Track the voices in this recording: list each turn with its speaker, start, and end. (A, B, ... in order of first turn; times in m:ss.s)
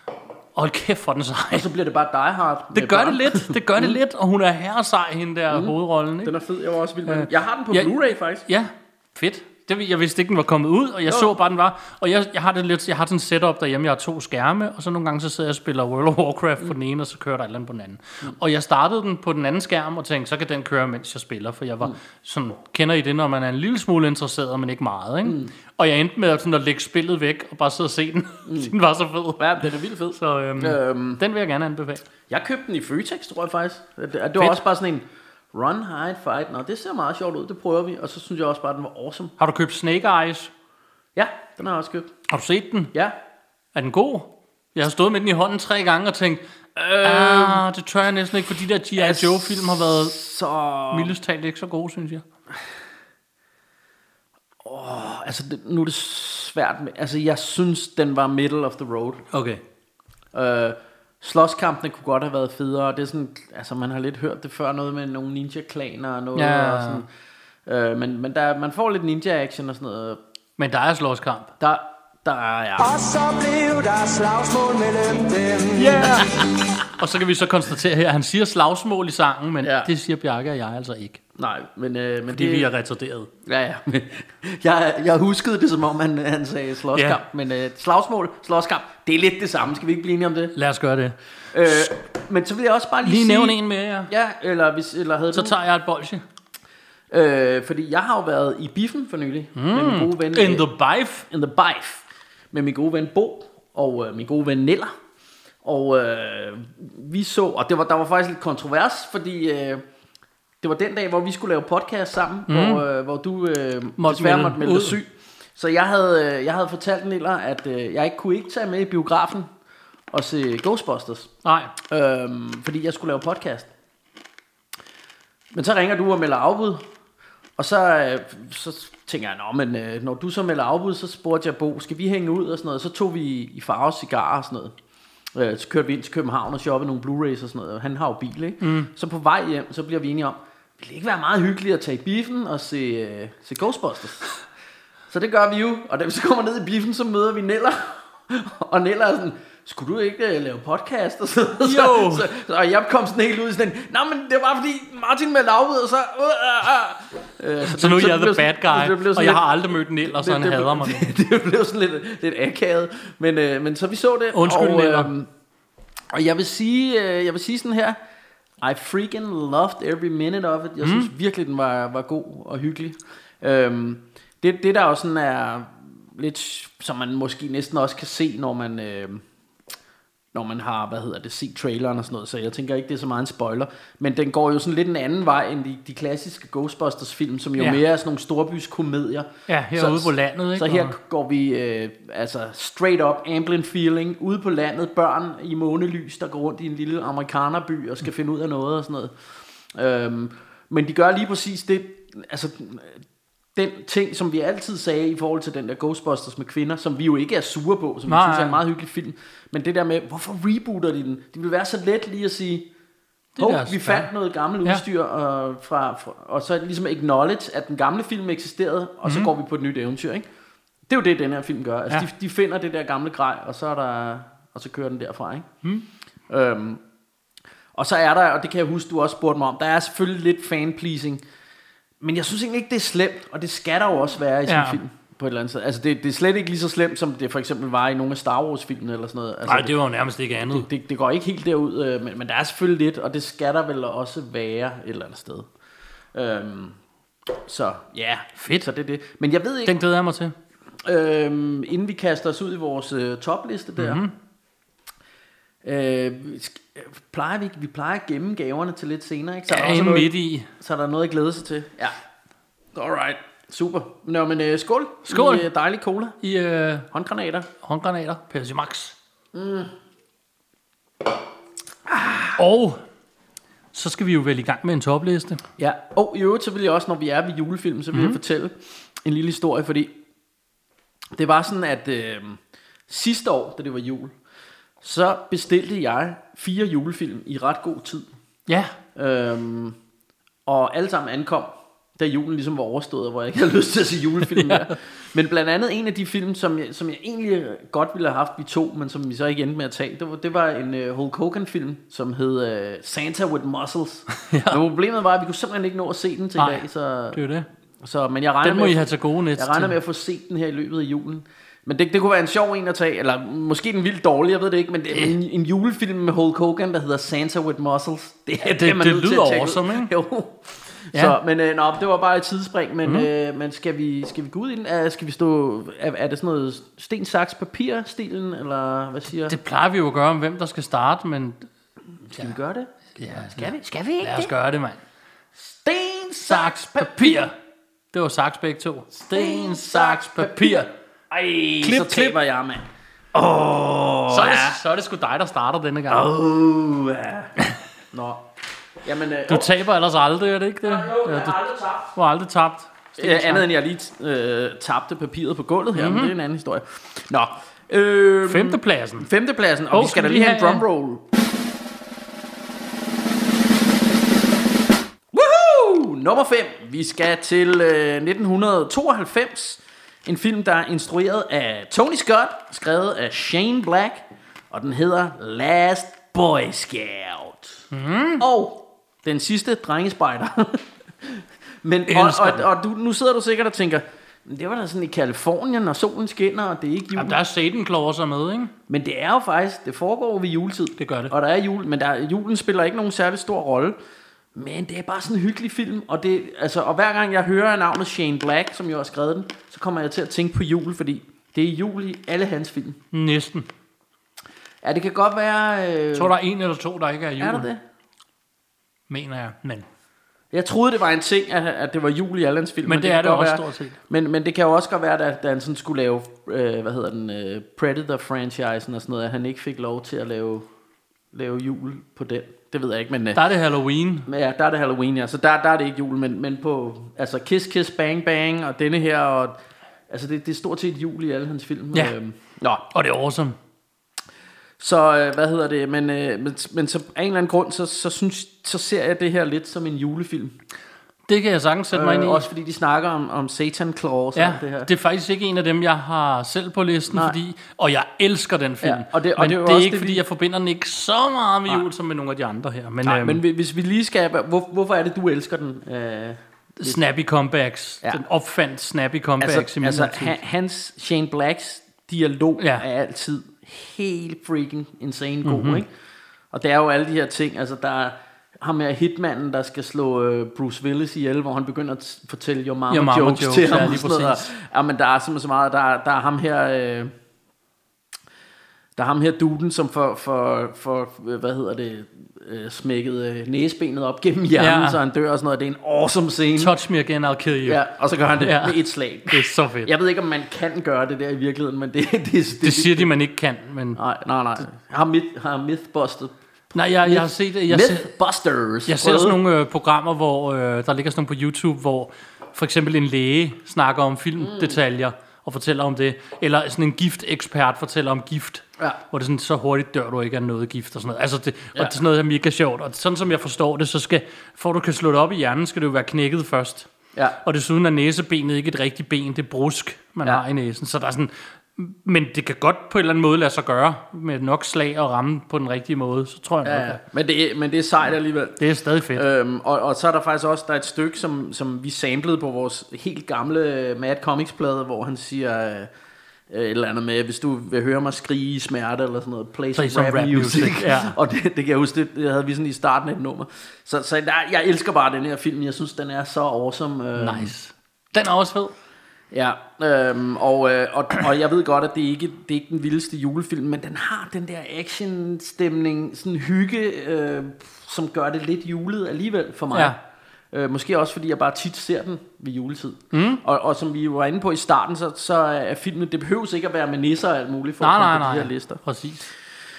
0:00.6-0:01.7 A
0:01.5-0:04.0 B
0:02.8-0:06.4 A
0:05.5-0:08.5 B
0:07.1-0:07.9 A
0:08.5-0:32.0 A
0:25.2-0:25.5 B
0:28.5-0:28.7 B
0:29.4-0:31.2 B
0:32.3-0:39.4 B
0:39.4-0:40.5 A
0:41.2-0:42.1 B
0:42.3-0:42.9 A
0:43.8-0:46.4 A
0:46.8-0:47.6 B
0:47.0-0:50.2 A
0:49.0-0:51.1 B
0:50.9-0:52.2 A
0:54.6-0:59.3 B
0:59.3-0:59.6 A
1:00.3-1:07.1 B
1:06.4-1:07.0 A
1:07.7-1:10.2 B
1:10.6-1:11.5 A
1:11.6-1:12.9 B
1:12.8-1:16.3 C
1:15.8-1:16.8 B
1:16.9-1:21.2 A
1:19.6-1:19.9 B
1:21.4-1:22.7 B
1:22.3-1:23.3 A
1:23.5-1:30.6 B
1:27.0-1:27.2 A
1:30.6-1:31.9 A
1:31.5-1:33.6 B
1:33.0-1:34.1 A
1:34.1-1:35.6 B
1:35.3-1:36.2 A
1:37.1-1:40.7 B
1:39.6-1:41.3 A
1:41.3-1:44.9 B
1:45.6-1:49.8 B
1:50.6-1:59.5 B
1:52.5-1:52.8 A
1:54.0-1:55.0 A
2:00.1-2:01.3 B
2:01.4-2:01.7 A
2:01.9-2:03.7 B
2:05.5-2:06.8 B
2:07.6-2:14.7 B
2:15.4-2:24.3 B
2:18.6-2:18.9 A
2:25.1-2:45.3 B
2:31.6-2:32.3 A
2:37.7-2:41.1 A
2:44.3-2:45.1 A
2:46.1-2:48.0 B
2:48.6-2:59.2 B
2:50.8-2:51.1 A
3:00.3-3:19.1 B
3:09.5-3:10.9 A
3:19.8-3:23.0 B
3:23.6-3:32.7 B
3:28.1-3:28.6 A
3:33.4-3:34.1 A
3:33.4-3:40.3 B
3:40.9-3:45.5 B
3:46.3-3:46.8 B
3:47.8-3:51.2 B
3:52.0-3:59.8 B
3:54.5-3:54.8 A
3:59.5-4:00.7 A
4:00.5-4:05.5 B
4:06.2-4:06.8 B
4:07.4-4:09.7 B
4:08.4-4:08.7 A
4:09.7-4:10.3 A
4:10.8-4:14.0 B
4:13.8-4:14.1 A
4:15.6-4:22.0 B
4:19.5-4:20.5 A
4:22.8-4:26.2 B
4:25.1-4:25.5 A
4:26.2-4:26.9 A
4:26.9-4:27.5 B
4:27.6-4:29.0 A
4:29.3-4:29.7 B
4:31.9-4:32.4 B
4:32.4-4:32.8 A
4:33.7-4:35.4 A
4:35.6-4:39.9 B
4:37.9-4:38.2 A
4:41.2-4:44.1 B
4:44.8-4:48.1 B
4:48.5-4:48.7 A
4:49.0-4:49.8 B
4:50.5-5:07.2 B
4:54.3-4:54.7 A
5:04.2-5:04.6 A
5:06.4-5:07.5 A
5:07.8-5:29.4 B
5:08.4-5:09.8 A
5:18.5-5:19.9 A
5:29.3-5:31.5 A
5:32.1-5:34.3 B
5:33.0-5:34.8 A
5:35.4-5:37.3 B
5:36.3-5:37.3 A
5:37.9-5:40.7 A
5:39.0-5:44.6 B
5:41.6-5:42.2 A
5:44.1-5:46.1 A
5:45.9-5:47.4 B
5:47.9-5:48.2 B
5:48.8-5:49.5 B
5:49.3-5:53.5 A
5:50.7-5:51.7 B
5:53.0-6:01.0 B
5:55.8-5:56.2 A
5:58.3-5:59.1 A
5:59.7-6:00.6 A
6:05.1-6:17.7 B
6:17.7-6:18.2 A
6:18.2-6:27.2 B
6:21.9-6:22.5 A
6:27.0-6:28.5 A
6:28.7-6:33.8 B
6:30.8-6:31.1 A
6:34.4-6:42.8 B
6:42.9-6:43.5 A
6:44.6-6:46.1 B
6:46.0-6:47.5 A
6:47.2-6:47.6 B
6:48.9-6:49.7 A
6:50.3-7:00.5 B
6:52.7-6:53.8 A
7:01.1-7:03.2 B
7:03.2-7:04.1 A
7:04.1-7:09.4 B
7:09.9-7:12.6 B
7:12.7-7:13.4 A
7:14.6-7:20.4 B
7:21.1-7:22.3 A
7:21.7-7:24.7 B
7:24.2-7:33.2 A
7:26.9-7:27.2 B
7:28.6-7:30.0 B
7:32.8-7:36.8 B
7:36.6-7:40.2 A
7:39.2-7:45.7 B
7:42.4-7:42.6 A
7:45.2-7:45.6 A
7:46.3-7:56.9 B
7:52.7-7:54.3 A
7:58.8-8:06.5 B
8:04.4-8:04.8 A
8:06.4-8:07.6 A
8:07.5-8:12.9 B
8:08.2-8:09.7 A
8:12.4-8:13.8 A
8:13.8-8:16.1 B
8:16.5-8:17.9 A
8:16.8-8:19.2 B
8:18.7-8:36.7 A
8:24.2-8:24.6 B
8:37.2-8:46.8 A
8:46.4-8:48.4 B
8:48.4-8:49.0 A
8:48.9-8:55.7 B
8:56.3-9:07.3 B
8:59.6-9:01.0 A
9:07.0-9:08.5 A
9:09.1-9:19.8 B
9:20.3-9:28.6 B
9:22.9-9:23.2 A
9:27.6-9:29.1 A